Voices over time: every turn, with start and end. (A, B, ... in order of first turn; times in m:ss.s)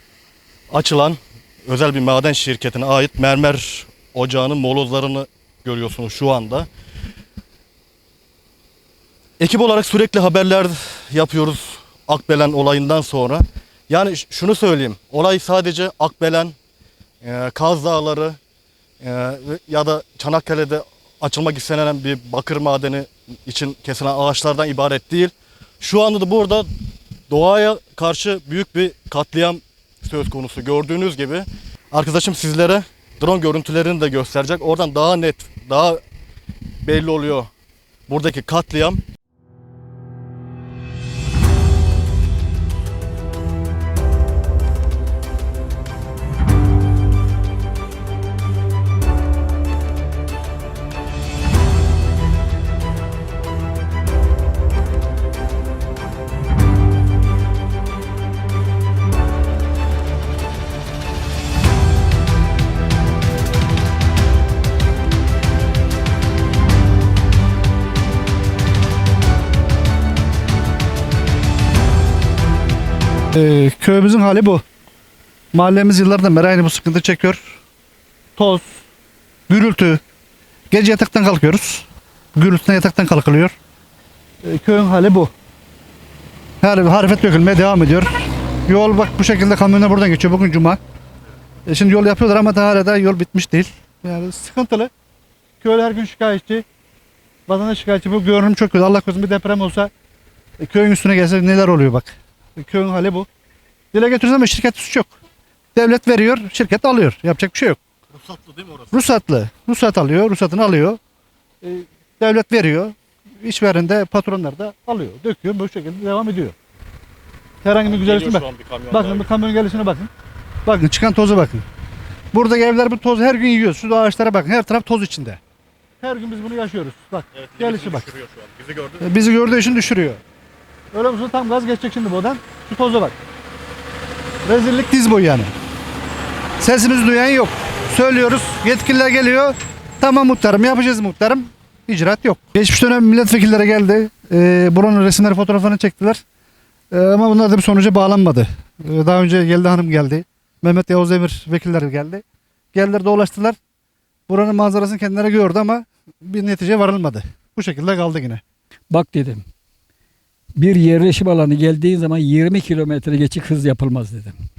0:00.7-0:06.7 A
0:09.4-0:16.5 A
0:17.2-0:18.4 A
0:19.0-0:26.7 A
0:27.3-0:36.0 A
0:36.8-0:37.5 A
0:38.1-0:39.0 A
1:13.3-1:14.6 B
1:15.5-1:17.5 B
1:18.4-1:18.8 B
1:19.5-1:20.0 B
1:20.7-1:23.5 B
1:24.4-1:25.3 B
1:26.6-1:30.8 B
1:31.6-1:34.9 B
1:35.6-1:36.6 B
1:37.5-1:39.9 B
1:40.6-1:43.3 B
1:43.9-1:45.1 B
1:45.7-1:47.8 B
1:48.1-1:49.0 A
1:48.9-1:51.0 B
1:51.6-1:56.5 B
1:57.6-2:00.1 B
1:57.8-1:59.3 A
2:00.6-2:01.6 B
2:02.3-2:05.4 B
2:06.0-2:08.1 B
2:07.3-2:09.1 A
2:09.0-2:10.2 B
2:10.9-2:13.2 B
2:14.4-2:15.5 B
2:16.6-2:26.2 B
2:26.9-2:32.2 B
2:32.7-2:33.6 B
2:34.3-2:38.4 B
2:38.9-2:39.4 C
2:40.6-2:44.4 C